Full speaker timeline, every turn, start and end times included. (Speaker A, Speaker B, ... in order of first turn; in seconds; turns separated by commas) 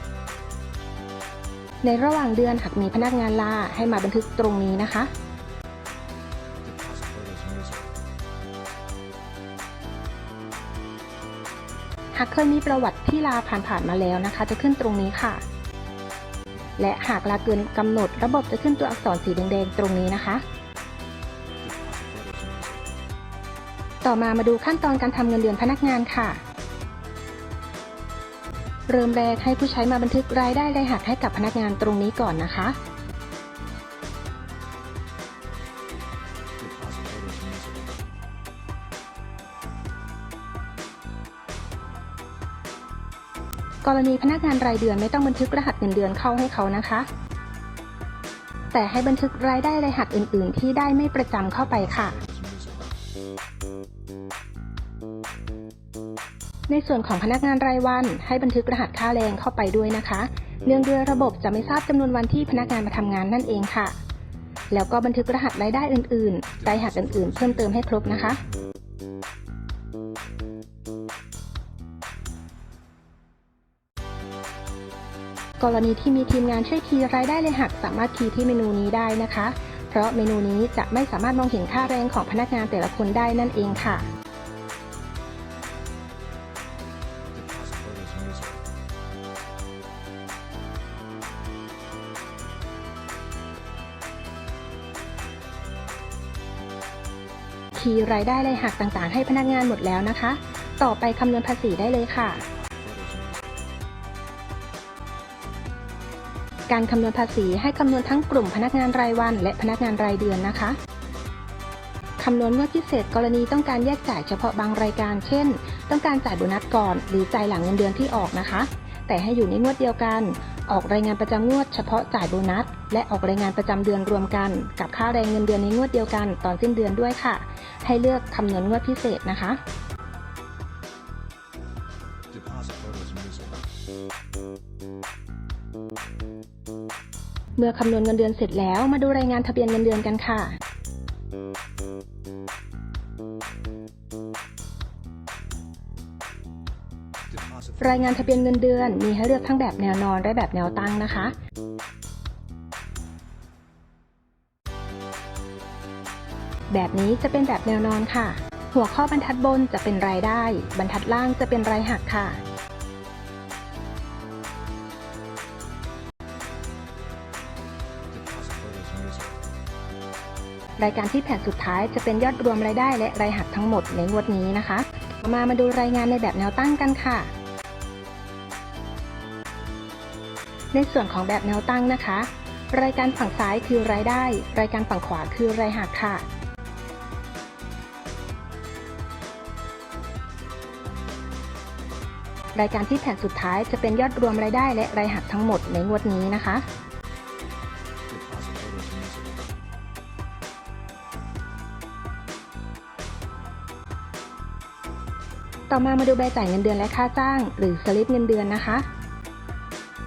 Speaker A: 1.8-5.1, Speaker B: 6.7-7.8, Speaker A: 12.1-15.4, Speaker A: 16.8-20.4, Speaker B: 21.6-22.6, Speaker A: 24.0-26.4, Speaker A: 28.9-32.8, Speaker B: 36.6-37.7, Speaker A: 43.8-47.1, Speaker A: 48.7-52.2, Speaker A: 56.7-64.0, Speaker A: 64.7-68.4, Speaker A: 75.6-84.0, Speaker B: 87.4-88.4, Speaker A: 97.8-102.5, Speaker A: 106.7-110.8, Speaker A: 112.2-129.6, Speaker B: 132.3-133.5, Speaker A: 137.6-140.6, Speaker A: 147.8-151.3, Speaker A: 156.7-162.4, Speaker B: 168.2-169.3, Speaker A: 170.8-177.3, Speaker A: 180.7-186.2, Speaker A: 192.5-196.7, Speaker B: 198.1-199.2, Speaker A: 205.7-208.8